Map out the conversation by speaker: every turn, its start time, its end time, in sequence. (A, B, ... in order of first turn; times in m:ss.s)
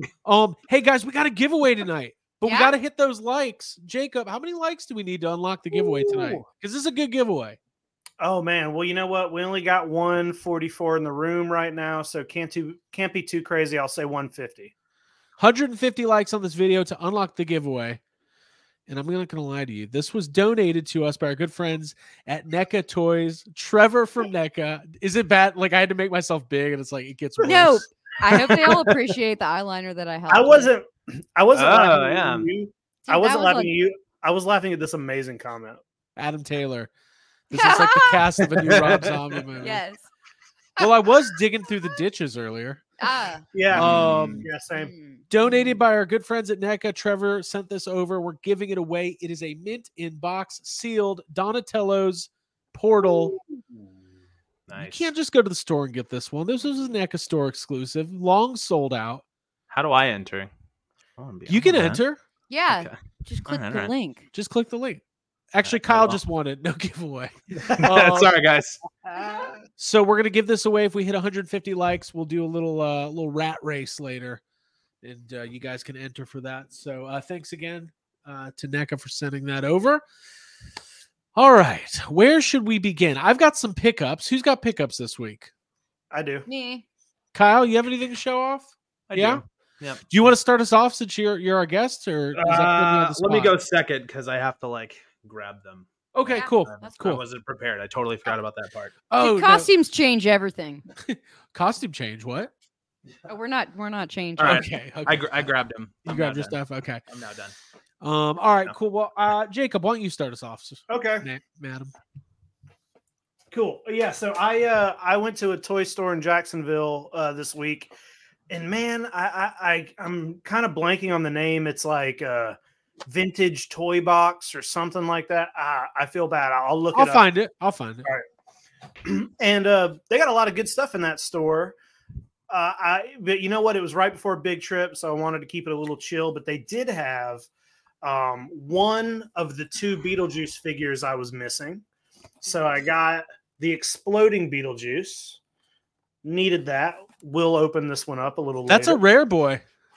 0:00.2-0:07.6 A
0:02.4-0:02.8 B
0:05.7-0:06.4 C
0:08.2-0:14.7 C
0:15.4-0:18.0 A
0:18.9-0:27.9 A
0:27.4-0:30.7 B
0:30.3-0:35.8 C
0:31.5-0:32.5 D
0:33.1-0:33.7 B
0:36.2-0:36.9 A
0:37.5-0:39.8 A
0:37.5-0:38.3 B
0:38.4-0:39.4 D
0:39.6-0:40.1 B
0:40.8-0:42.8 A
0:43.0-0:43.5 B
0:43.5-0:44.9 C
0:43.7-0:44.5 D
0:43.7-0:44.4 A
0:44.8-0:45.8 B
0:45.3-0:53.4 A
0:54.7-0:55.1 D
0:54.8-0:59.2 A
0:59.7-1:00.5 D
1:01.2-1:02.0 D
1:01.5-1:02.2 A
1:02.5-1:04.2 B
1:03.5-1:03.9 D
1:04.3-1:05.0 A
1:05.5-1:08.3 A
1:05.6-1:06.2 D
1:07.7-1:08.8 D
1:09.2-1:09.5 C
1:09.2-1:09.5 B
1:09.8-1:14.4 A
1:15.0-1:20.0 A
1:21.4-1:25.5 A
1:26.1-1:26.5 C
1:26.4-1:26.8 B
1:27.3-1:29.4 A
1:29.1-1:30.0 D
1:30.1-1:33.6 A
1:32.3-1:39.0 D
1:36.1-1:37.2 A
1:36.3-1:37.0 B
1:39.1-1:39.7 A
1:39.2-1:40.8 B
1:41.0-1:42.5 A
1:43.3-1:44.7 B
1:44.4-1:47.6 D
1:44.4-1:45.3 A
1:46.1-1:47.0 A
1:48.0-1:51.9 A
1:50.9-1:51.3 C
1:53.5-1:57.9 C
1:58.5-2:07.2 C
2:06.9-2:08.1 A
2:09.0-2:11.8 C
2:12.5-2:17.5 C
2:18.0-2:21.8 C
2:22.4-2:25.4 C
2:26.2-2:29.0 C
2:28.7-2:29.6 A